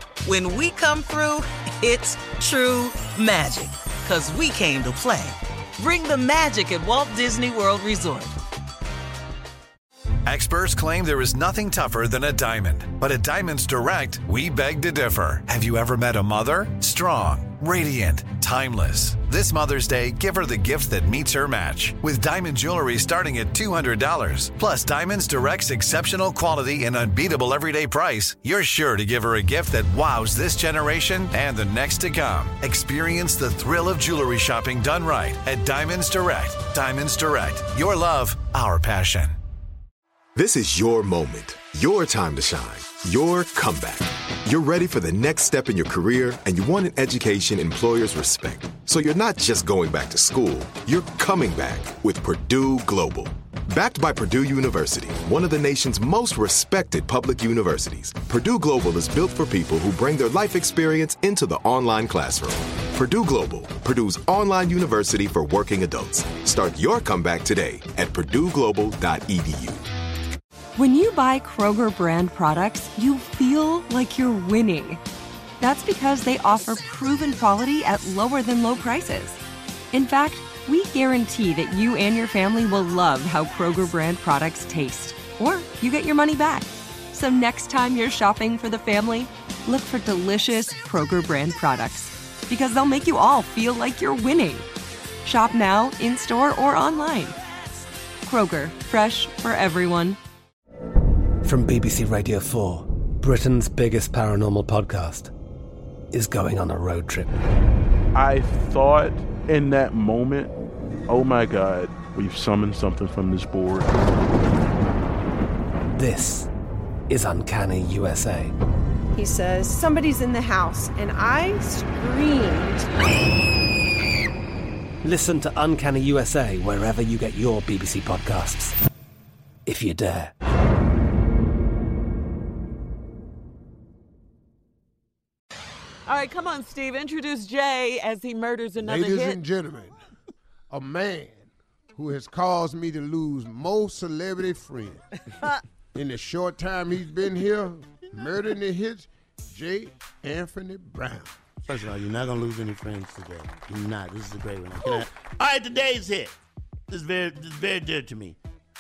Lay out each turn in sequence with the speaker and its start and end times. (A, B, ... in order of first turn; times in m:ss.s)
0:00.2-0:08.4 A
0:10.3-0:39.4 B
0:40.4-1:09.8 C
1:10.8-1:15.0 D
1:15.6-1:19.4 D
1:19.9-1:34.7 D
1:35.2-1:37.4 D
1:38.2-1:40.2 D
1:41.4-1:45.3 E
1:46.1-1:47.4 E
1:48.2-1:50.5 F
1:51.1-1:53.9 F
1:55.9-1:56.5 E
1:57.1-1:58.5 E
1:59.2-2:02.8 G
2:05.0-2:08.8 E
2:09.7-2:10.3 E
2:16.1-2:19.4 H
2:18.8-2:20.0 I
2:20.7-2:25.0 I
2:26.0-2:31.4 I
2:31.7-2:36.3 J
2:36.9-2:38.4 J